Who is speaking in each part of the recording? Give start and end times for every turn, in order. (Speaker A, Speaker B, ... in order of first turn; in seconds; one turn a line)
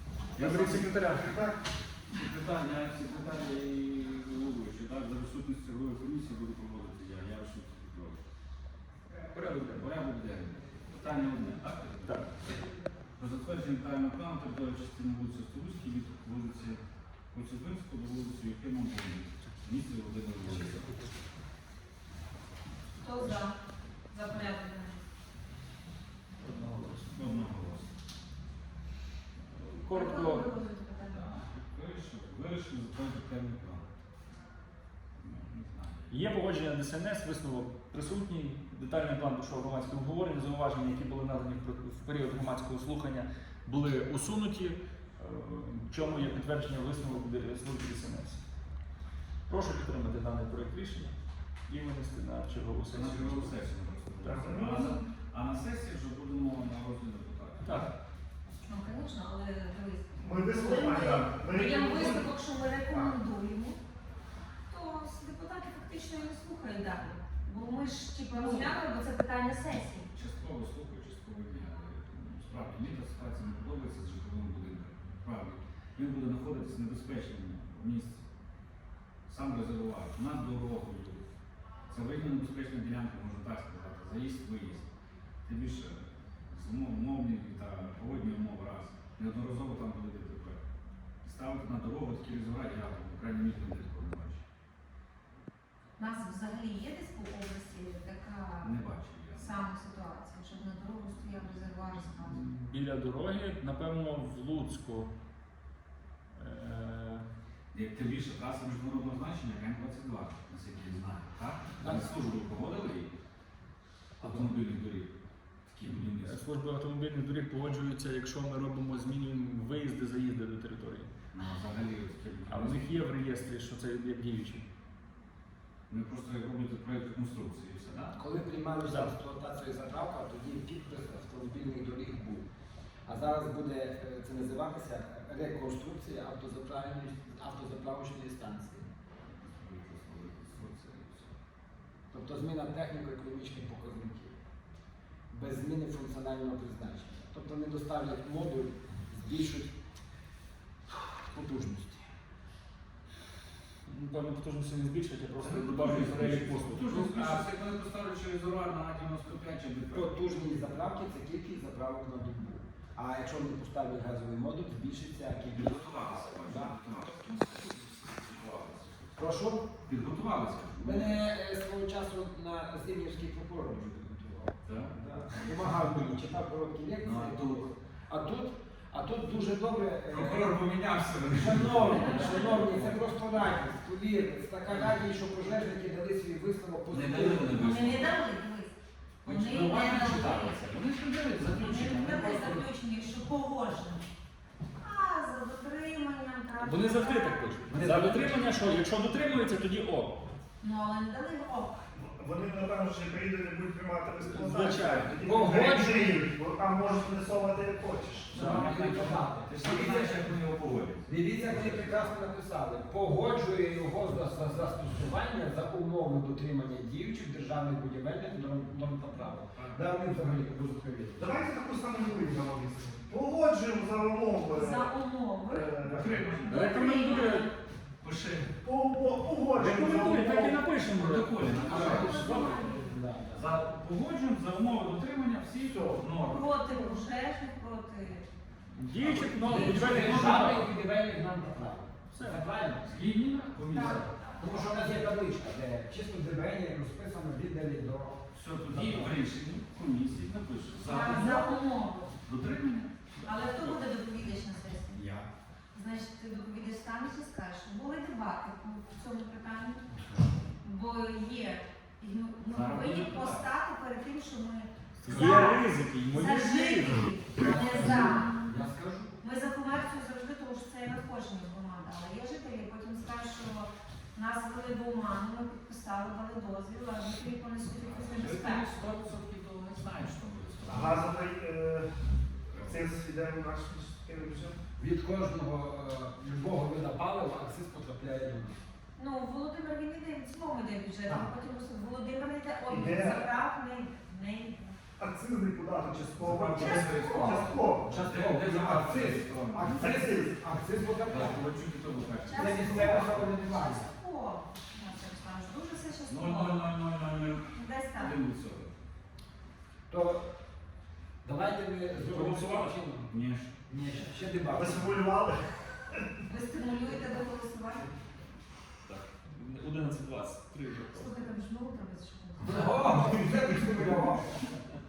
Speaker A: 0.4-0.9
Speaker B: 0.4-1.4
Speaker C: 0.6-1.6
Speaker A: 2.1-8.2
Speaker B: 9.3-9.9
Speaker A: 9.7-12.6
Speaker B: 12.1-12.3
Speaker A: 13.2-16.8
Speaker A: 17.3-20.9
Speaker D: 23.0-23.6
Speaker D: 24.1-25.0
Speaker B: 26.4-27.3
Speaker A: 27.1-27.9
Speaker B: 29.5-30.5
Speaker D: 29.9-31.2
Speaker A: 31.0-33.9
Speaker A: 35.2-36.2
Speaker B: 36.1-48.4
Speaker B: 49.5-51.1
Speaker B: 51.7-53.5
Speaker A: 52.9-57.9
Speaker B: 54.2-54.6
Speaker C: 54.3-54.9
Speaker B: 57.6-57.9
Speaker D: 58.7-63.8
Speaker C: 60.2-62.4
Speaker C: 62.9-63.2
Speaker D: 64.7-70.1
Speaker A: 70.1-78.3
Speaker A: 79.3-81.2
Speaker A: 81.9-84.9
Speaker A: 85.5-90.6
Speaker A: 91.2-94.4
Speaker D: 96.0-98.8
Speaker A: 98.6-99.6
Speaker D: 99.3-102.4
Speaker B: 102.2-105.1
Speaker B: 106.3-107.3
Speaker A: 107.7-113.1
Speaker E: 111.8-112.1
Speaker B: 114.2-114.5
Speaker A: 114.2-115.1
Speaker A: 115.7-116.4
Speaker B: 116.1-121.1
Speaker A: 121.3-123.0
Speaker B: 122.5-124.7
Speaker A: 125.9-128.2
Speaker E: 128.2-132.5
Speaker B: 128.9-129.1
Speaker E: 133.1-138.9
Speaker A: 139.3-141.3
Speaker E: 142.1-144.4
Speaker E: 145.3-149.7
Speaker E: 150.9-152.1
Speaker B: 153.9-157.5
Speaker A: 155.4-160.1
Speaker E: 159.9-166.7
Speaker A: 165.5-171.2
Speaker E: 169.2-169.7
Speaker E: 170.8-180.6
Speaker A: 174.6-175.7
Speaker A: 177.0-177.8
Speaker A: 180.1-183.0
Speaker E: 181.3-187.7
Speaker D: 181.9-182.6
Speaker A: 184.7-184.9
Speaker A: 186.9-188.2
Speaker D: 187.5-190.7
Speaker A: 189.2-192.7
Speaker D: 191.5-194.1
Speaker D: 194.8-197.5
Speaker B: 196.6-200.2
Speaker E: 197.7-198.4
Speaker D: 200.6-201.9
Speaker C: 201.9-208.5
Speaker B: 204.2-206.2
Speaker E: 205.2-205.8
Speaker A: 208.3-212.2
Speaker E: 208.3-210.2
Speaker E: 211.1-221.2
Speaker A: 219.4-220.3
Speaker C: 221.2-226.4
Speaker D: 224.5-225.8
Speaker A: 225.8-227.3
Speaker B: 226.5-227.5
Speaker D: 226.5-227.5
Speaker A: 228.0-228.5
Speaker C: 228.6-230.6
Speaker B: 229.5-232.1
Speaker A: 230.8-232.7
Speaker E: 231.6-233.6
Speaker D: 231.7-233.0
Speaker A: 233.3-236.6
Speaker C: 235.6-236.1
Speaker D: 236.2-238.3
Speaker B: 238.8-240.7
Speaker A: 239.0-240.6
Speaker E: 239.4-243.0
Speaker B: 242.1-242.4
Speaker A: 242.8-244.9
Speaker D: 243.7-244.1
Speaker E: 244.4-249.2
Speaker A: 248.3-251.6
Speaker D: 250.8-252.1
Speaker A: 252.2-253.0
Speaker D: 253.2-255.0
Speaker B: 253.3-253.8
Speaker A: 255.0-255.2
Speaker D: 255.7-259.9
Speaker D: 260.6-268.4
Speaker A: 262.5-263.5
Speaker B: 265.0-267.9
Speaker A: 265.1-265.4
Speaker E: 267.6-269.2
Speaker D: 269.2-278.7
Speaker A: 277.8-281.1
Speaker C: 280.6-284.6
Speaker A: 282.5-282.8
Speaker E: 284.8-288.6
Speaker D: 289.0-294.8
Speaker C: 292.7-293.3
Speaker C: 295.0-298.0
Speaker A: 296.0-299.8
Speaker D: 296.5-297.4
Speaker E: 297.8-301.4
Speaker C: 299.6-300.4
Speaker A: 301.0-303.3
Speaker D: 302.2-306.7
Speaker E: 302.3-303.9
Speaker A: 306.1-308.8
Speaker D: 307.5-308.2
Speaker E: 309.9-310.3
Speaker E: 311.2-313.1
Speaker B: 312.1-312.8
Speaker A: 313.1-313.5
Speaker E: 313.7-315.1
Speaker C: 314.5-316.1
Speaker D: 316.3-317.9
Speaker B: 318.9-321.2
Speaker D: 320.9-323.1
Speaker E: 322.4-324.5